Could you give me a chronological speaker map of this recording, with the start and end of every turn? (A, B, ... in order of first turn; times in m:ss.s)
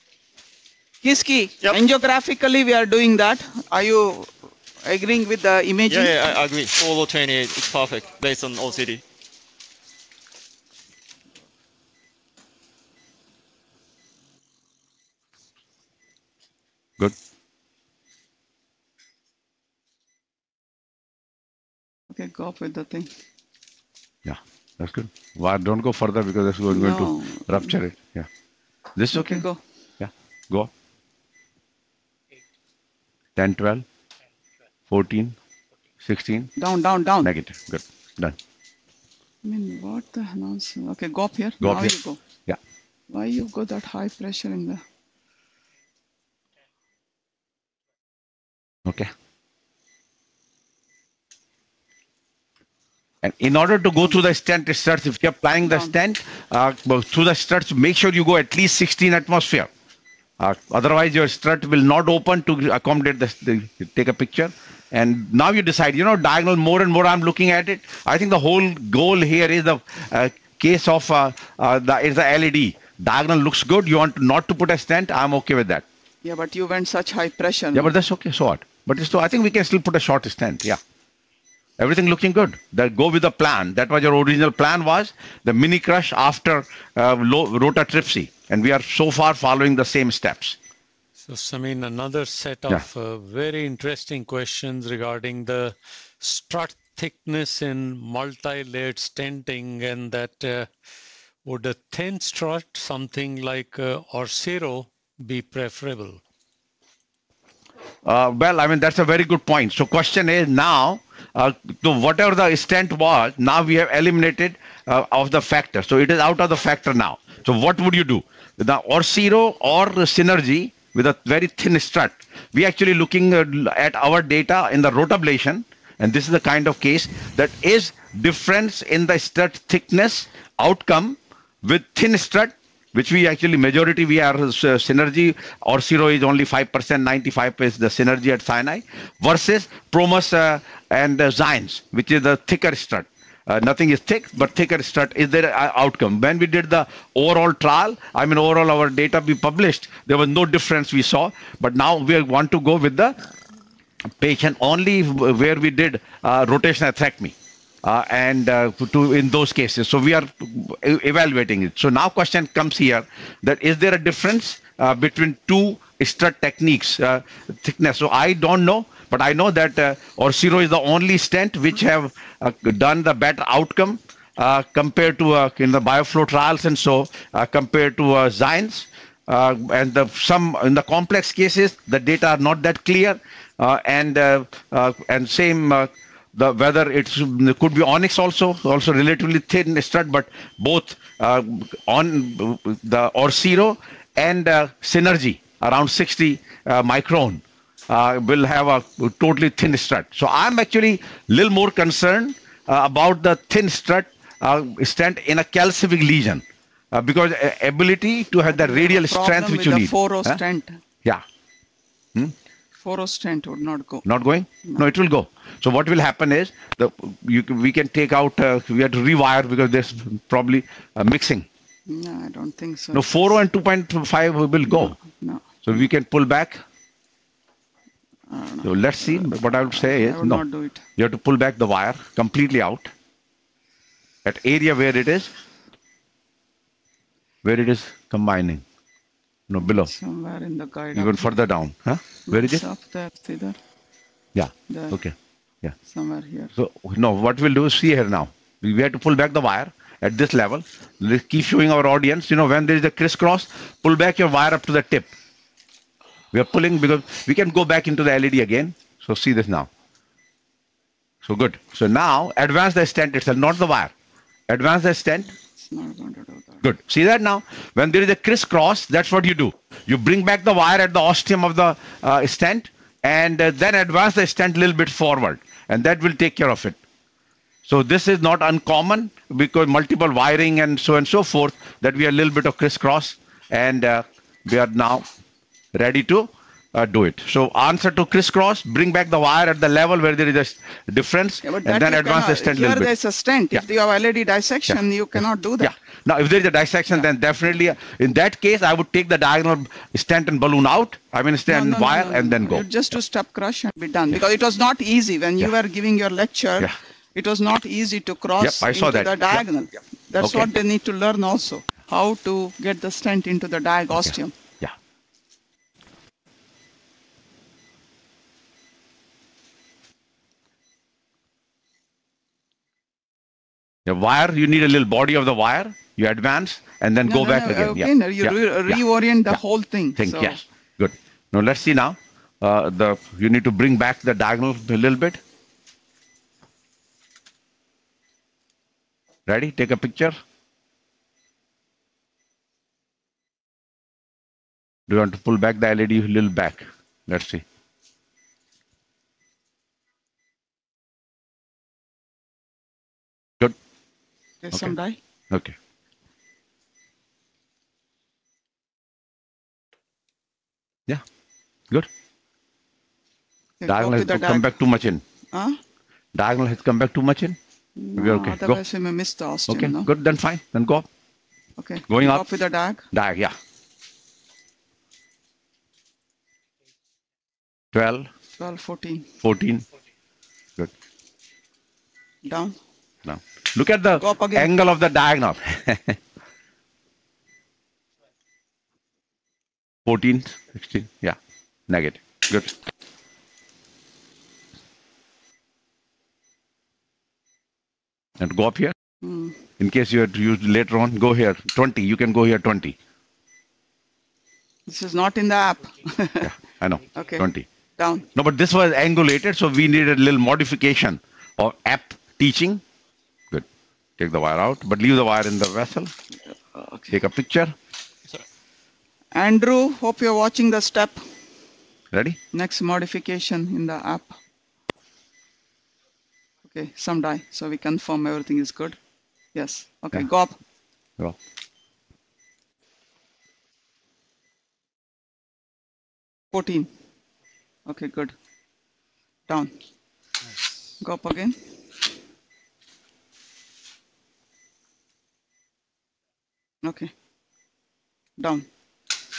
0:01.0-0:06.4 A
0:05.9-0:09.0 B
0:22.1-0:23.1 A
0:24.2-0:28.3 C
0:26.7-0:27.7 A
0:29.0-0:29.4 C
0:29.1-0:29.6 A
0:30.0-0:30.7 C
0:33.4-0:33.8 C
0:34.9-0:35.4 C
0:36.0-0:36.5 C
0:36.6-0:37.3 A
0:37.2-0:38.4 C
0:39.4-0:42.2 A
0:41.6-0:42.6 C
0:43.1-0:44.8 A
0:48.8-0:49.1 C
0:53.2-0:59.7 C
0:55.6-0:55.9 A
1:00.4-1:15.8 C
1:16.2-1:17.9 A
1:17.7-1:20.8 C
1:21.8-1:30.6 C
1:31.2-1:40.7 D
1:41.4-1:46.2 D
1:48.0-2:33.2 C
2:34.2-3:30.4 C
3:28.5-3:30.8 A
3:32.8-3:34.0 A
3:34.0-3:41.4 C
3:41.9-3:43.1 A
3:42.9-3:44.9 C
3:44.7-3:45.5 A
3:45.6-3:46.6 C
3:48.3-3:50.8 A
3:48.6-3:50.4 C
3:51.0-3:52.9 C
3:54.2-3:55.3 C
3:57.4-3:58.6 C
3:59.5-3:59.9 C
3:59.8-4:01.3 A
4:00.9-4:02.6 C
4:02.3-4:03.6 A
4:04.3-4:05.7 C
4:04.7-4:05.0 A
4:05.9-4:06.5 A
4:06.5-4:15.1 C
4:16.3-4:19.7 C
4:21.2-4:23.9 C
4:24.5-4:25.3 C
4:25.6-4:26.6 A
4:26.6-4:36.8 C
4:37.6-4:45.1 C
4:45.7-4:52.9 C
4:51.4-4:55.7 A
4:55.6-5:02.6 C
5:01.5-5:14.4 A
5:08.4-5:09.4 C
5:10.2-5:10.5 C
5:13.9-5:14.7 C
5:23.8-5:29.4 C
5:27.0-5:30.4 A
5:30.0-5:35.2 C
5:39.3-5:40.2 C
5:44.9-5:47.4 C
5:54.4-5:55.0 A
6:03.6-6:04.5 A
6:03.6-6:05.0 C
6:05.3-6:05.6 A
6:06.1-6:07.4 C
6:07.8-6:09.9 A
6:08.0-6:08.6 C
6:09.5-6:10.9 C
6:11.6-6:12.8 A
6:11.9-6:12.2 C
6:12.9-6:13.4 C
6:17.7-6:18.1 C
6:18.4-6:19.1 A
6:19.2-6:19.6 C
6:22.2-6:22.6 A
6:23.0-6:26.0 C
6:24.0-6:24.5 A
6:29.8-6:31.2 C
6:31.7-6:32.5 C
6:38.2-6:38.7 C
6:39.0-6:39.4 A
6:39.6-6:42.8 C
6:44.7-6:46.3 A
6:46.2-6:47.4 C
6:46.9-6:47.2 A
6:47.8-6:48.1 A
6:48.1-6:52.6 C
6:54.0-6:55.9 C
6:56.3-6:56.9 A
6:56.9-6:57.5 C
6:59.1-7:01.0 A
7:01.9-7:02.2 C
7:02.3-7:04.1 A
7:06.5-7:08.8 A
7:09.3-7:10.4 A
7:16.3-7:16.7 A
7:17.6-7:18.1 A
7:20.8-7:21.4 A
7:26.6-7:26.9 A
7:28.2-7:28.4 A